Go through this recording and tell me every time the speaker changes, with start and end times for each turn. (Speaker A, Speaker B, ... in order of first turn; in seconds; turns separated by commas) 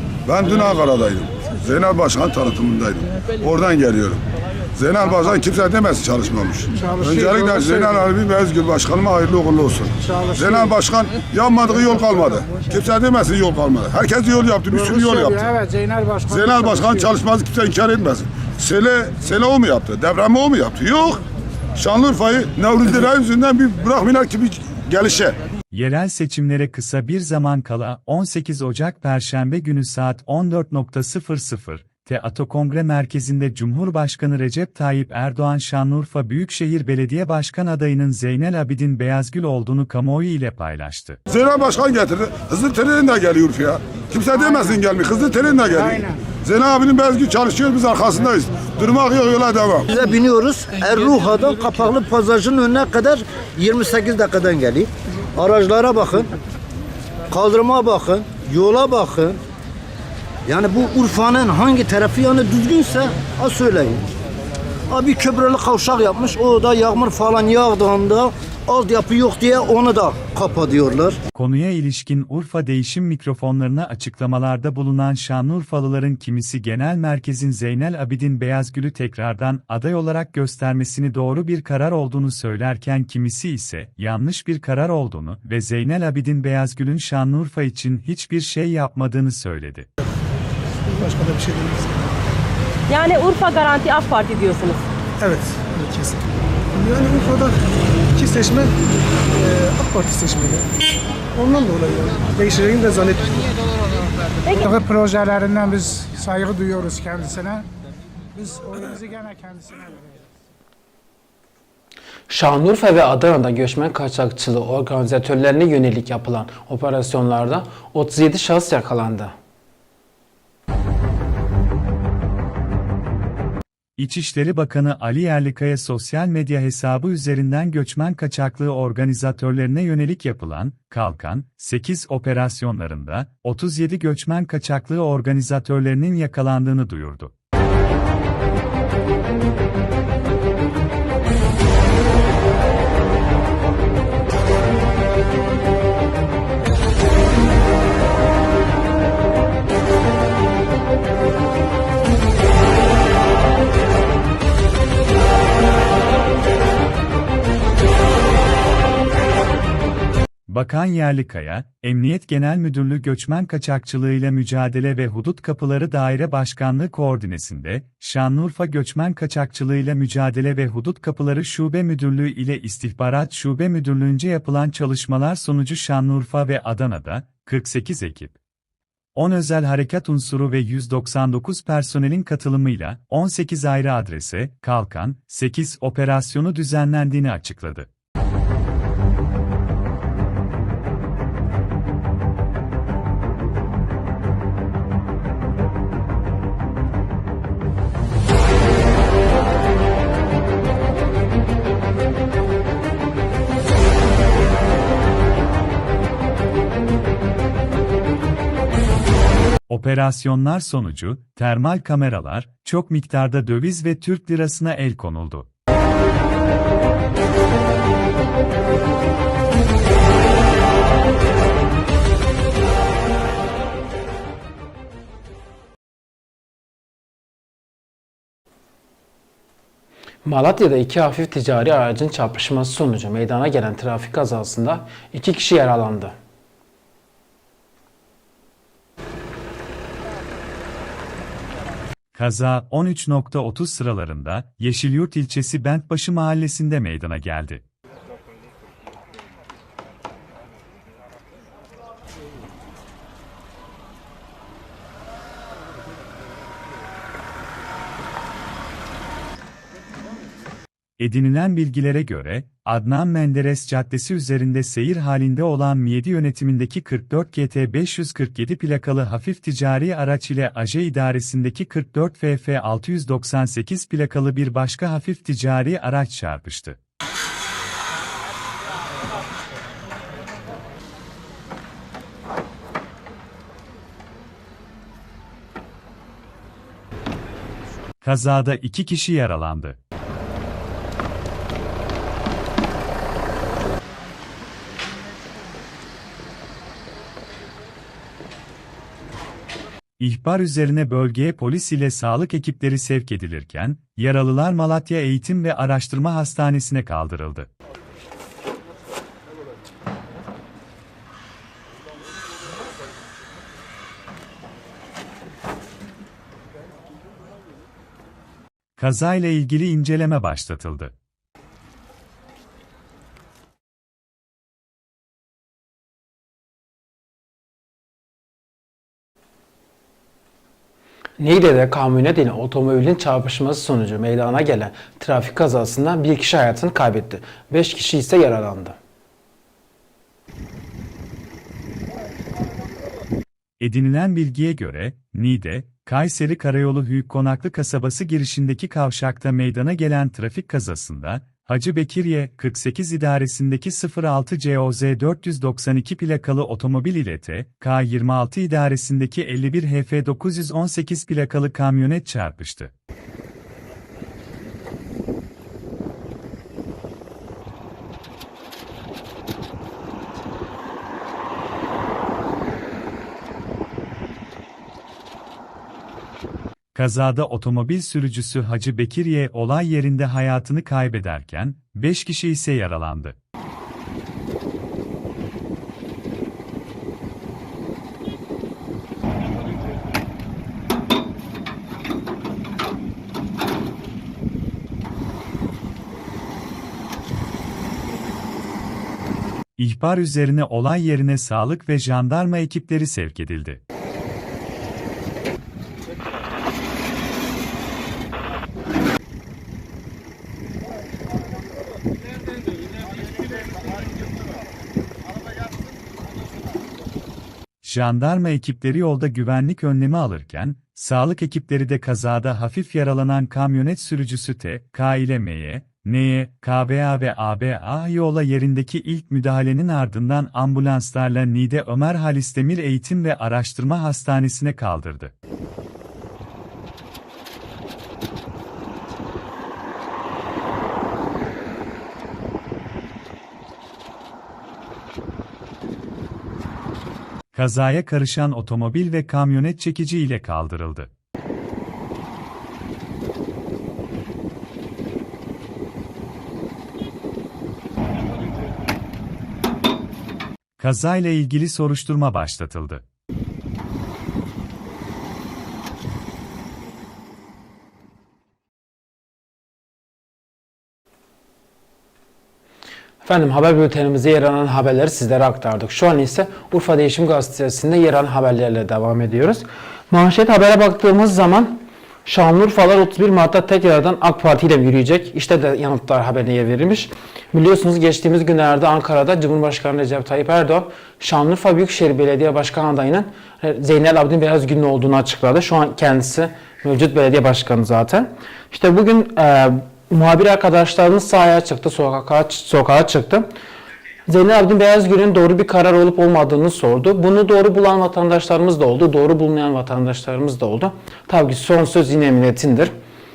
Speaker A: 0.3-4.2, Speaker A: 4.8-15.6, Speaker B: 6.8-8.1, Speaker B: 10.1-10.7, Speaker B: 14.7-17.1, Speaker A: 16.3-21.2, Speaker A: 21.8-25.4, Speaker C: 25.7-41.2, Speaker A: 41.3-49.9, Speaker B: 45.8-46.1, Speaker D: 49.9-56.3, Speaker D: 57.3-59.4, Speaker D: 60.5-64.1, Speaker D: 64.9-71.2, Speaker C: 71.3-89.9, Speaker E: 91.0-92.0, Speaker F: 92.9-94.8, Speaker E: 95.2-96.2, Speaker E: 96.8-97.6, Speaker E: 98.2-98.7, Speaker E: 99.4-100.7, Speaker E: 101.4-103.3, Speaker B: 104.6-107.7, Speaker B: 108.4-110.0, Speaker G: 112.3-119.3, Speaker C: 124.0-137.3, Speaker C: 160.5-178.3, Speaker C: 179.2-187.9, Speaker C: 209.7-215.5, Speaker G: 230.2-236.1, Speaker C: 242.2-247.6, Speaker C: 261.0-276.8, Speaker C: 288.0-289.8, Speaker C: 300.0-307.5, Speaker C: 318.8-320.9, Speaker G: 331.2-338.8, Speaker C: 343.6-362.7, Speaker C: 376.8-383.2, Speaker C: 399.6-403.6, Speaker C: 417.6-435.1, Speaker C: 447.3-450.9, Speaker C: 460.6-462.8, Speaker G: 473.0-503.3, Speaker G: 504.1-512.7